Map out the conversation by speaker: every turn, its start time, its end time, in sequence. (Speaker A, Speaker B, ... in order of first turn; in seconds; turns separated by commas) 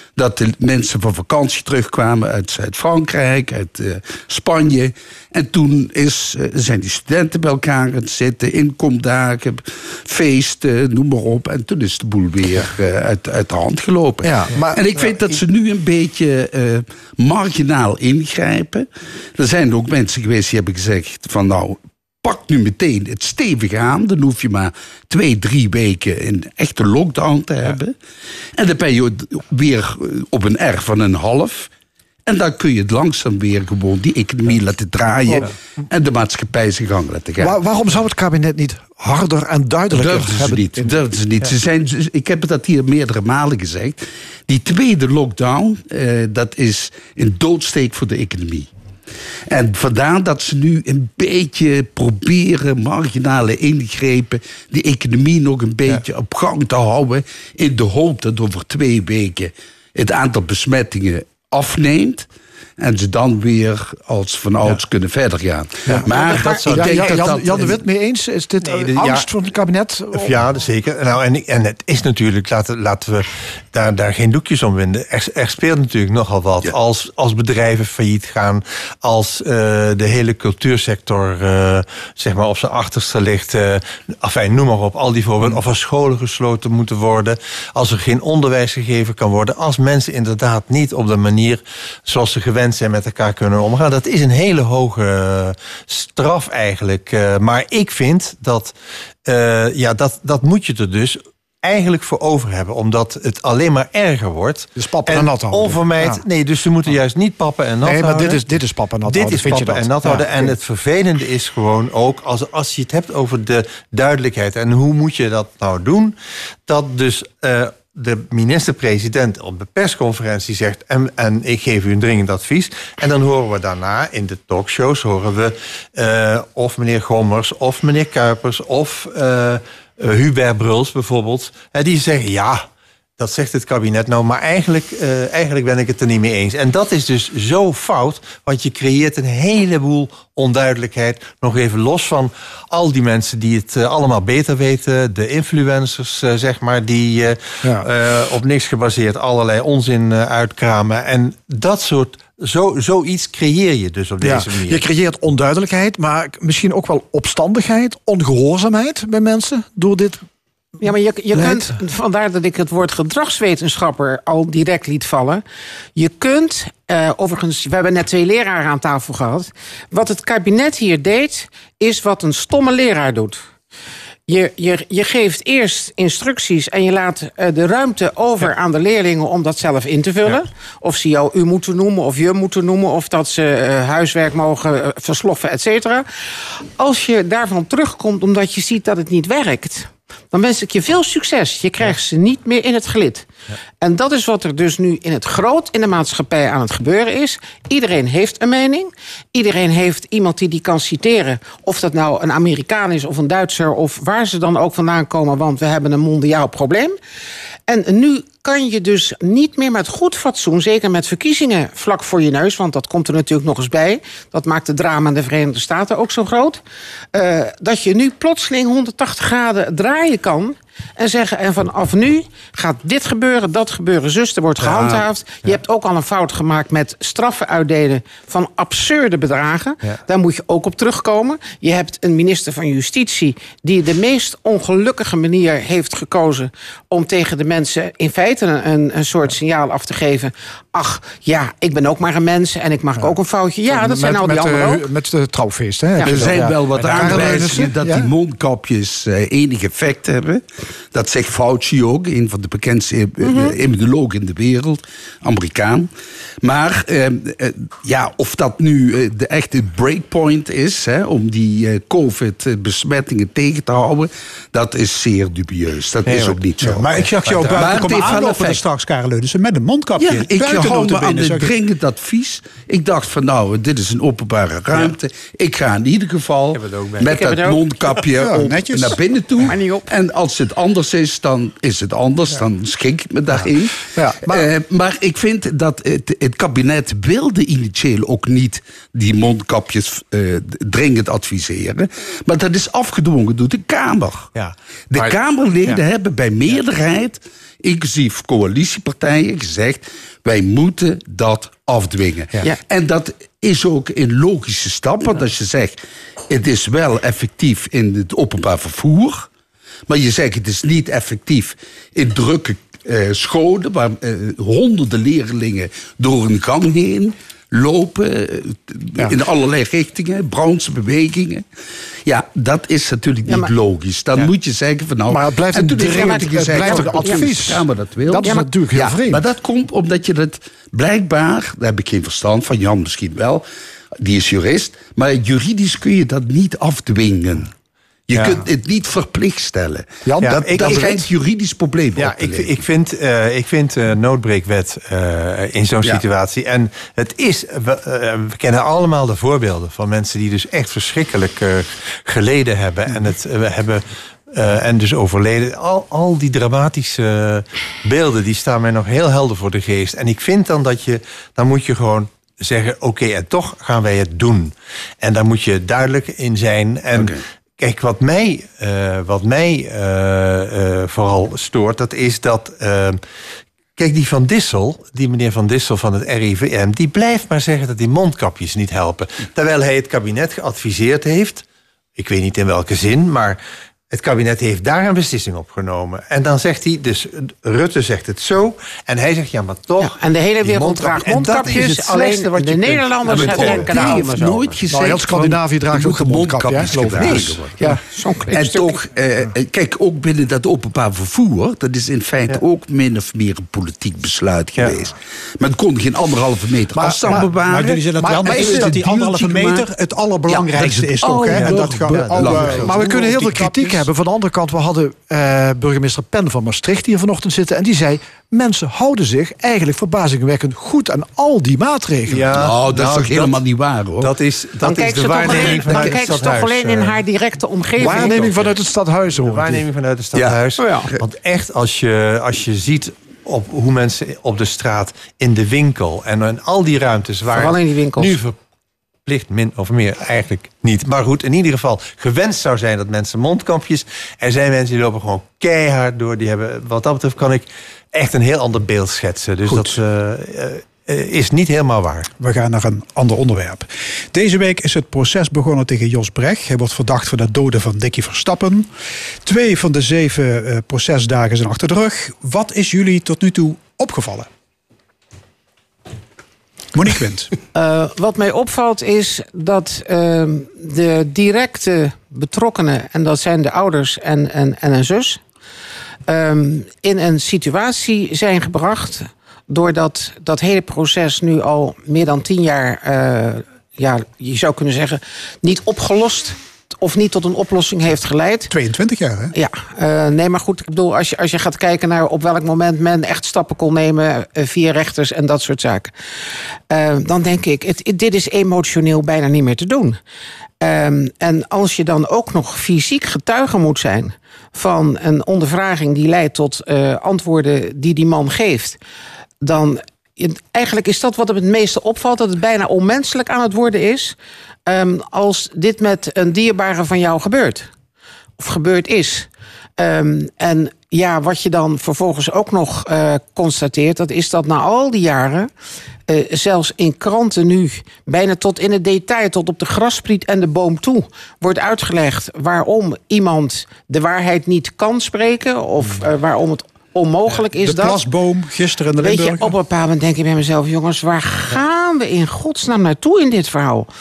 Speaker A: 0.2-18.8, Speaker B: 14.2-14.8, Speaker C: 14.5-15.4, Speaker A: 19.4-27.9, Speaker A: 28.6-31.7, Speaker A: 32.3-37.5, Speaker B: 37.4-40.9, Speaker A: 39.9-44.0, Speaker A: 44.5-48.7, Speaker A: 49.5-62.3, Speaker A: 62.8-67.8, Speaker B: 65.9-70.4, Speaker C: 65.9-67.4, Speaker D: 66.1-66.6, Speaker C: 68.6-69.3, Speaker C: 70.1-98.7, Speaker C: 99.3-108.4, Speaker B: 104.8-106.2, Speaker B: 107.8-110.5, Speaker C: 109.1-116.2, Speaker C: 116.7-132.7, Speaker C: 133.2-154.8, Speaker B: 154.2-160.2, Speaker D: 160.8-165.4, Speaker B: 161.3-161.7, Speaker D: 166.0-173.4, Speaker D: 174.3-186.1, Speaker D: 186.8-193.3, Speaker D: 193.8-207.0, Speaker D: 207.7-216.6, Speaker D: 217.1-244.9, Speaker A: 224.6-225.1, Speaker B: 243.7-248.1, Speaker D: 246.0-246.3, Speaker A: 246.0-250.4, Speaker C: 246.8-247.4, Speaker A: 250.9-255.9, Speaker D: 253.2-253.6, Speaker A: 256.4-268.6, Speaker E: 266.6-271.6, Speaker A: 270.0-283.7, Speaker C: 276.5-277.5, Speaker D: 277.0-277.6, Speaker E: 278.1-279.0, Speaker D: 279.5-279.9, Speaker B: 284.0-284.5, Speaker A: 284.3-294.3, Speaker C: 294.4-295.8, Speaker A: 294.9-305.7, Speaker A: 306.3-309.3, Speaker A: 309.9-321.4, Speaker A: 322.1-333.4, Speaker D: 323.3-323.5, Speaker B: 325.1-329.3, Speaker D: 325.6-327.6, Speaker D: 328.1-328.6, Speaker A: 334.0-337.5, Speaker A: 338.1-342.5, Speaker C: 338.1-338.4, Speaker B: 340.1-341.0, Speaker C: 340.2-341.1, Speaker C: 342.0-373.0, Speaker C: 373.8-381.4, Speaker C: 382.0-383.4, Speaker C: 383.9-394.5, Speaker D: 389.8-394.6, Speaker B: 391.0-394.1, Speaker A: 391.3-391.6, Speaker A: 393.1-397.5, Speaker B: 394.7-397.8, Speaker D: 397.1-398.8, Speaker A: 398.3-409.6, Speaker E: 406.8-413.9, Speaker B: 408.0-408.8, Speaker B: 410.5-422.3, Speaker C: 411.2-412.8, Speaker C: 422.1-423.4, Speaker A: 422.4-424.1, Speaker C: 424.0-427.0, Speaker D: 424.6-428.3, Speaker B: 424.8-425.9, Speaker C: 427.8-428.6, Speaker B: 427.8-429.6, Speaker C: 429.2-438.4, Speaker D: 437.3-438.2, Speaker C: 439.1-452.1, Speaker E: 449.5-449.8, Speaker E: 452.2-458.7, Speaker E: 459.2-464.3, Speaker E: 466.7-467.3, Speaker D: 467.5-475.2, Speaker D: 476.1-488.5, Speaker E: 488.5-489.3, Speaker D: 489.3-495.9, Speaker D: 496.7-500.0, Speaker D: 500.6-508.8, Speaker D: 509.4-514.1, Speaker D: 514.7-517.7, Speaker D: 518.4-525.5, Speaker D: 526.1-538.0, Speaker E: 537.5-539.6, Speaker D: 539.0-543.9